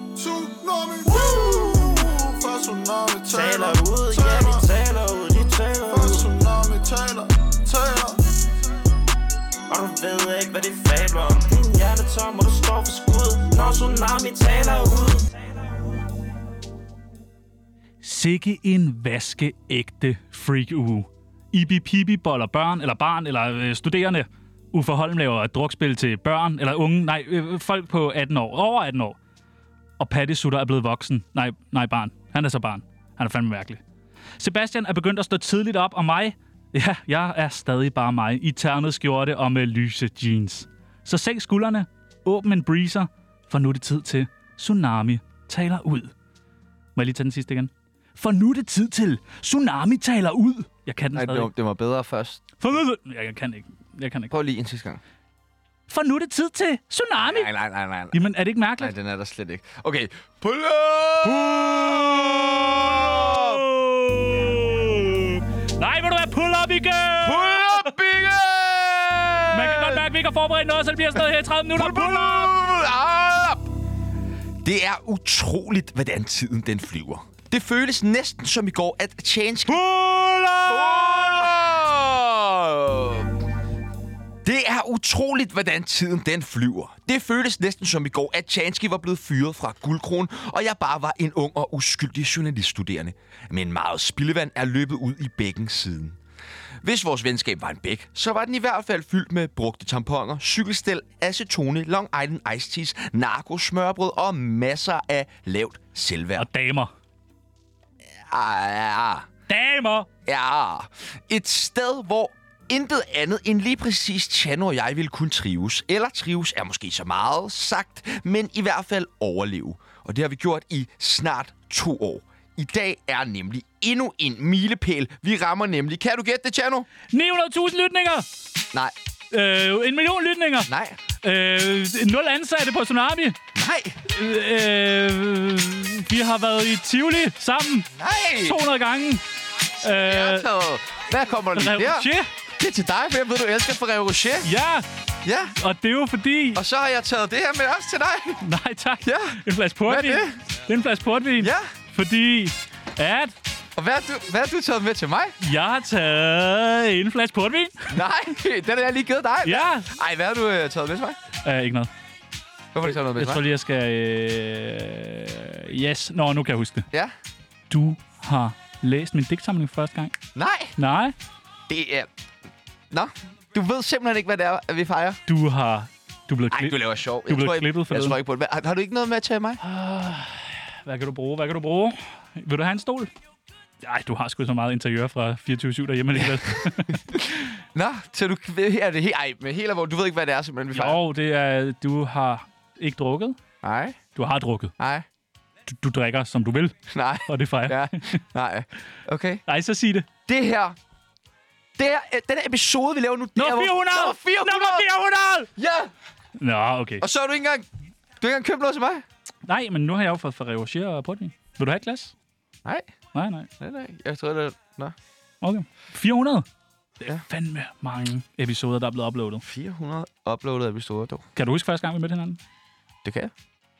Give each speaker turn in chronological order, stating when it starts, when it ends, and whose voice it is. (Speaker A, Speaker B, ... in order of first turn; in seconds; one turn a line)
Speaker A: 0.1-4.7
Speaker B: 3.3-6.2
Speaker A: 5.9-8.2
Speaker B: 9.7-15.4
Speaker C: 18.0-29.2
Speaker C: 30.0-33.8
Speaker C: 34.4-46.1
Speaker C: 47.0-51.5
Speaker D: 51.1-52.4
Speaker C: 52.6-54.3
Speaker D: 54.3-55.0
Speaker C: 55.9-57.5
Speaker D: 57.2-58.3
Speaker C: 58.1-58.9
Speaker D: 58.8-63.6
Speaker C: 61.2-67.9
Speaker D: 67.2-70.0
Speaker C: 69.5-72.6
Speaker D: 71.7-73.6
Speaker D: 74.6-79.8
Speaker C: 79.7-81.3
Speaker D: 80.6-83.4
Speaker D: 84.4-96.2
Speaker D: 96.8-106.5
Speaker C: 106.4-106.9
Speaker D: 108.0-109.3
Speaker C: 109.5-110.1
Speaker D: 110.2-126.9
Speaker C: 127.1-128.2
Speaker C: 129.3-133.4
Speaker D: 130.7-131.0
Speaker D: 133.5-134.0
Speaker C: 134.1-137.9
Speaker D: 137.9-138.6
Speaker C: 138.4-139.2
Speaker C: 139.8-140.5
Speaker D: 139.8-144.5
Speaker C: 141.5-142.3
Speaker C: 144.4-144.8
Speaker D: 145.2-145.6
Speaker C: 145.5-146.6
Speaker D: 146.5-148.4
Speaker C: 148.4-153.3
Speaker D: 149.0-150.4
Speaker D: 151.4-151.7
Speaker D: 153.8-155.3
Speaker C: 155.4-158.1
Speaker D: 157.9-161.2
Speaker C: 159.4-159.9
Speaker C: 161.4-161.9
Speaker D: 162.7-163.4
Speaker C: 162.8-166.9
Speaker C: 167.7-170.2
Speaker D: 170.3-170.7
Speaker C: 170.8-171.1
Speaker D: 171.7-172.1
Speaker D: 172.9-175.2
Speaker C: 175.3-178.2
Speaker D: 176.5-179.6
Speaker C: 179.6-183.1
Speaker C: 183.8-187.5
Speaker D: 186.1-191.0
Speaker C: 190.7-193.4
Speaker D: 193.6-194.0
Speaker C: 194.1-194.7
Speaker D: 194.8-195.1
Speaker C: 195.7-198.2
Speaker D: 196.9-199.4
Speaker C: 199.4-200.1
Speaker D: 200.2-200.8
Speaker D: 201.8-204.9
Speaker C: 203.3-205.5
Speaker D: 205.5-205.9
Speaker C: 206.4-207.0
Speaker D: 207.0-207.6
Speaker D: 208.2-209.0
Speaker C: 209.4-212.1
Speaker C: 213.1-213.5
Speaker D: 213.6-214.9
Speaker C: 215.4-216.4
Speaker C: 217.0-219.4
Speaker D: 219.4-221.2
Speaker C: 221.3-222.4
Speaker D: 223.0-223.3